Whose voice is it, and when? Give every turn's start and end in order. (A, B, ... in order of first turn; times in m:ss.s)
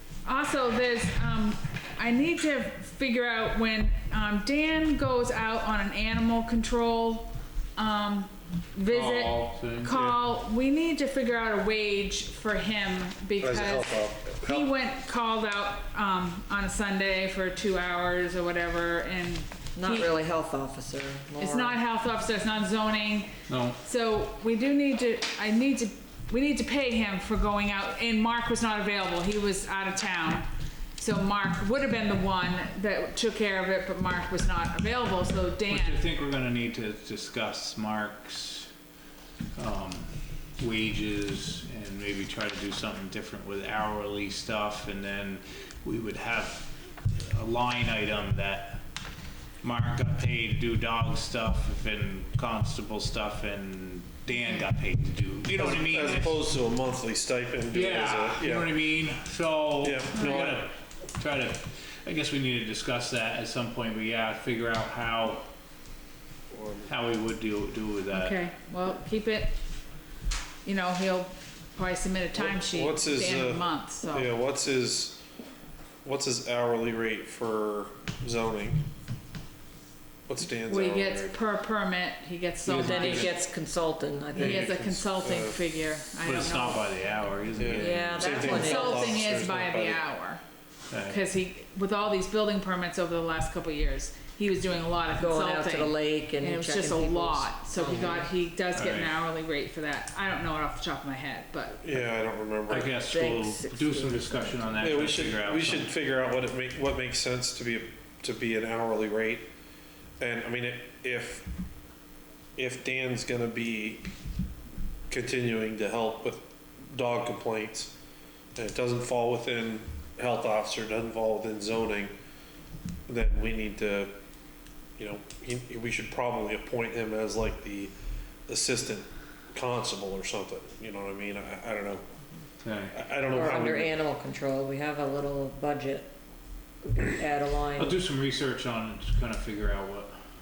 0:00.2-0:20.1 A
0:08.9-0:09.9 B
0:09.9-0:10.2 C
0:13.4-0:14.7 C
0:19.8-0:21.8 D
0:21.4-0:36.1 A
0:23.5-0:23.8 B
0:35.7-0:38.7 B
0:39.6-0:48.8 B
0:49.6-0:56.4 B
0:55.5-0:58.7 C
0:57.7-1:05.4 B
0:59.8-1:00.7 C
1:00.2-1:00.5 A
1:06.5-1:06.9 C
1:06.9-1:08.4 B
1:08.1-1:09.6 A
1:10.6-1:14.3 A
1:12.4-1:15.2 C
1:16.0-1:18.8 C
1:20.3-1:21.4 C
1:20.6-1:23.3 A
1:22.6-1:23.3 B
1:22.8-1:24.7 D
1:24.4-1:25.6 C
1:24.4-1:26.9 A
1:26.2-1:28.6 B
1:27.6-1:30.0 C
1:27.8-1:29.2 D
1:28.4-1:30.4 A
1:30.9-1:31.2 B
1:31.0-1:41.8 A
1:35.2-1:38.3 D
1:38.8-1:39.1 B
1:41.8-1:42.9 C
1:42.7-1:46.0 B
1:43.1-1:44.6 D
1:44.8-1:49.5 C
1:50.2-1:51.5 C
1:52.6-1:54.1 C
1:55.1-1:57.9 C
1:58.6-2:02.1 C
2:03.1-2:04.2 C
2:05.0-2:07.9 C
2:08.5-2:12.0 C
2:12.6-2:13.0 B
2:12.9-2:14.0 C
2:13.3-2:16.1 D
2:16.8-2:18.0 D
2:17.8-2:20.1 B